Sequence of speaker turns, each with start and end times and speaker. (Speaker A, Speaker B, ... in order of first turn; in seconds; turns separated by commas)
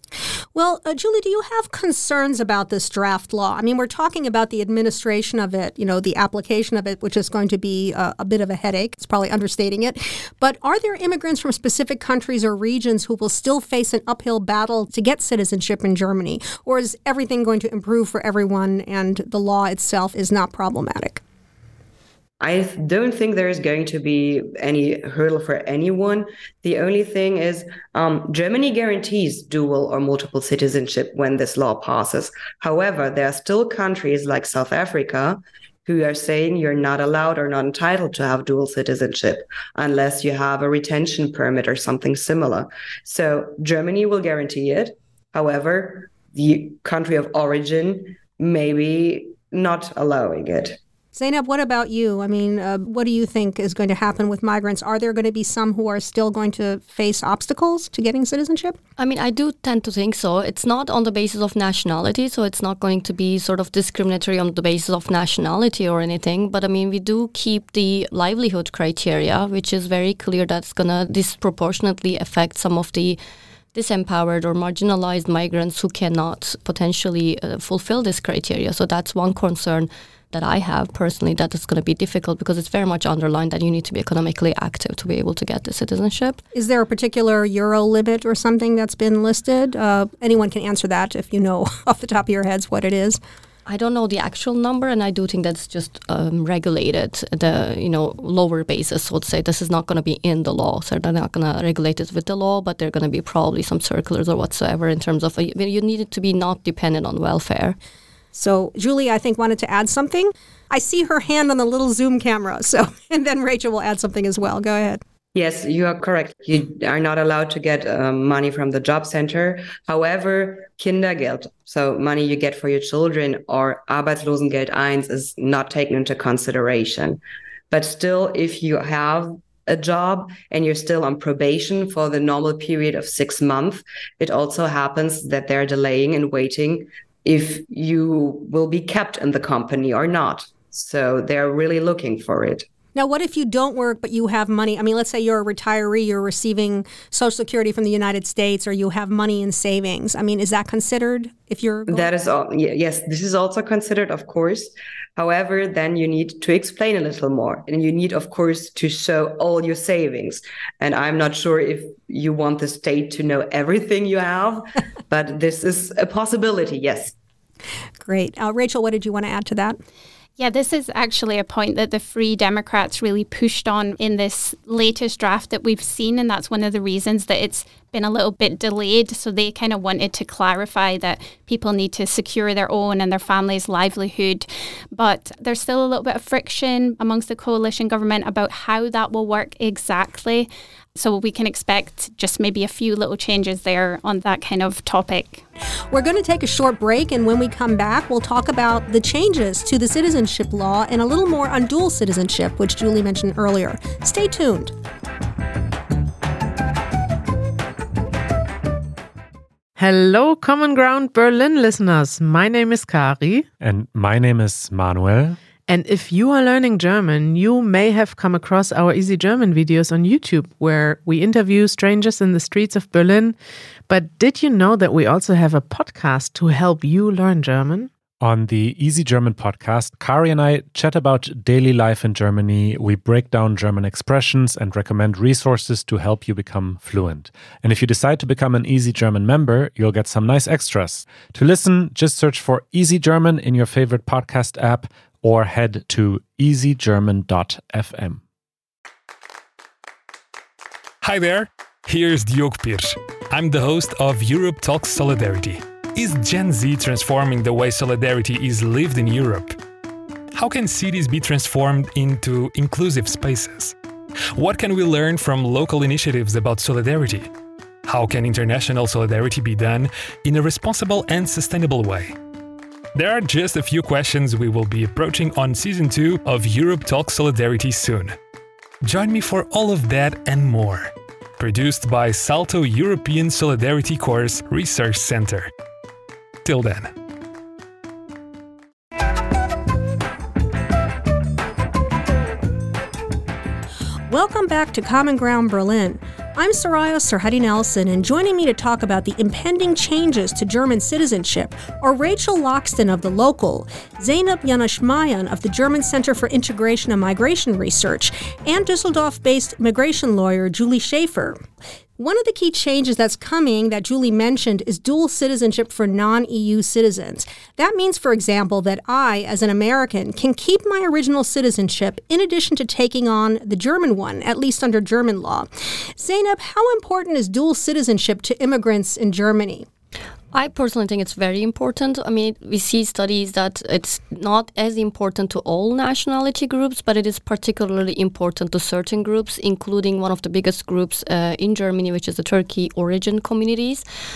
Speaker A: 0.6-21.2, Speaker B: 22.4-50.8, Speaker A: 51.1-58.8, Speaker C: 59.0-73.2, Speaker C: 73.8-86.4, Speaker A: 86.5-93.2, Speaker C: 93.7-107.8, Speaker A: 108.3-115.0, Speaker B: 115.3-127.2, Speaker B: 127.7-142.7, Speaker A: 142.9-152.1, Speaker B: 151.9-167.1, Speaker A: 168.0-169.8, Speaker D: 170.4-195.4, Speaker A: 195.9-204.7, Speaker E: 209.8-213.5, Speaker F: 213.6-215.4, Speaker E: 215.7-223.4, Speaker E: 223.9-227.9, Speaker F: 228.2-248.2, Speaker G: 251.0-259.6, Speaker G: 260.4-263.8, Speaker G: 264.4-267.3, Speaker G: 267.9-272.1, Speaker G: 272.9-278.2, Speaker G: 278.8-285.5, Speaker G: 286.4-286.9, Speaker A: 294.1-311.4, Speaker A: 312.0-329.7, Speaker C: 330.3-343.8